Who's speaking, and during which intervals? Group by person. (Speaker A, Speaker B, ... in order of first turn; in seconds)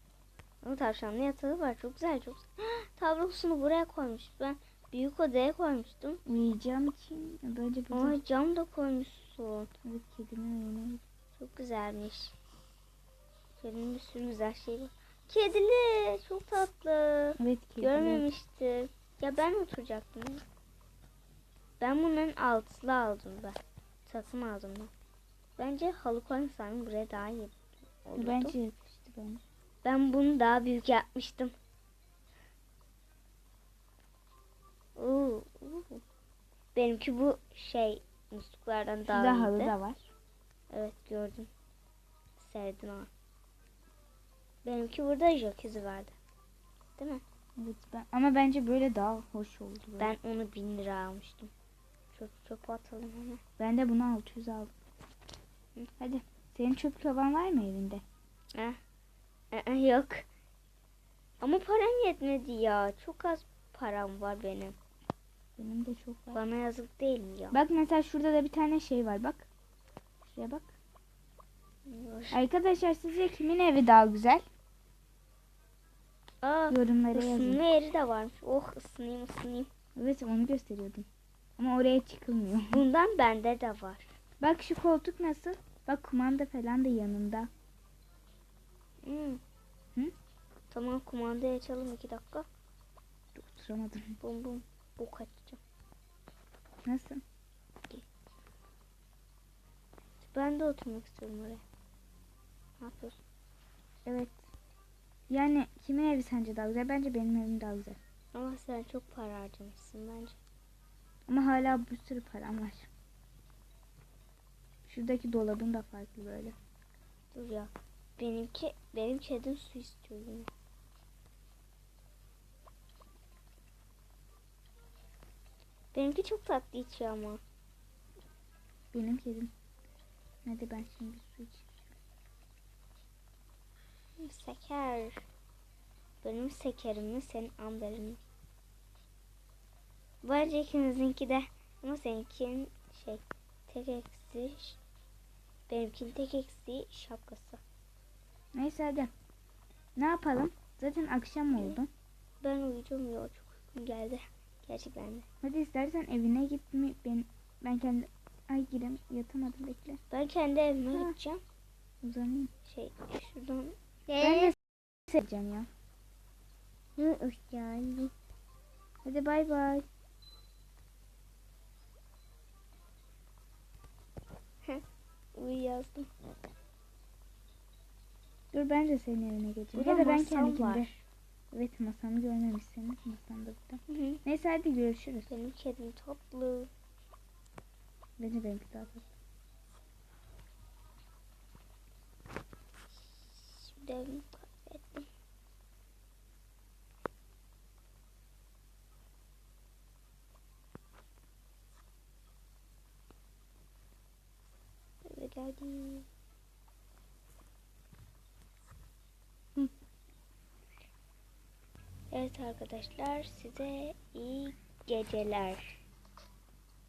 Speaker A: 0.6-6.2, 7.9-9.7, 11.4-12.3, 13.6-20.4, 21.8-24.9, 25.6-28.6, 29.8-31.5, 35.0-36.0, 36.8-39.8, 40.7-41.5, 42.4-43.1, 44.6-46.1, 47.0-47.2, 50.0-51.5, 52.1-53.4, 59.5-60.3, 61.4-64.8, 66.3-67.6, 71.9-72.4, 76.4-79.7, 82.7-84.1, 89.0-89.4, 90.7-92.5, 94.2-95.6, 100.2-101.6, 102.8-103.2, 108.3-110.4, 117.3-120.5, 125.9-127.4, 134.2-135.2, 136.2-138.2, 140.2-144.8, 145.7-147.6, 151.5-151.8, 152.4-155.3, 160.1-161.4, 162.7-164.6, 167.0-168.1, 175.3-176.1, 179.7-181.0, 183.9-184.2, 185.3-186.7, 193.3-195.1, 205.0-206.1, 212.1-215.8
Speaker B: 6.3-8.2, 9.8-11.0, 17.4-18.3, 28.2-29.4, 39.1-40.1, 47.6-50.1, 53.6-54.7, 56.0-58.0, 65.6-66.4, 67.5-69.5, 70.2-70.7, 72.3-74.5, 76.7-77.6, 80.0-81.1, 81.6-82.8, 84.4-87.5, 93.3-94.2, 96.8-97.2, 104.0-104.5, 105.3-108.0, 111.3-112.9, 114.9-116.5, 128.9-129.5, 130.4-131.8, 148.5-149.1, 150.0-151.9, 155.4-160.0, 162.0-162.5, 164.2-164.6, 165.1-165.7, 169.1-169.9, 178.5-180.9, 181.5-185.3, 188.2-189.1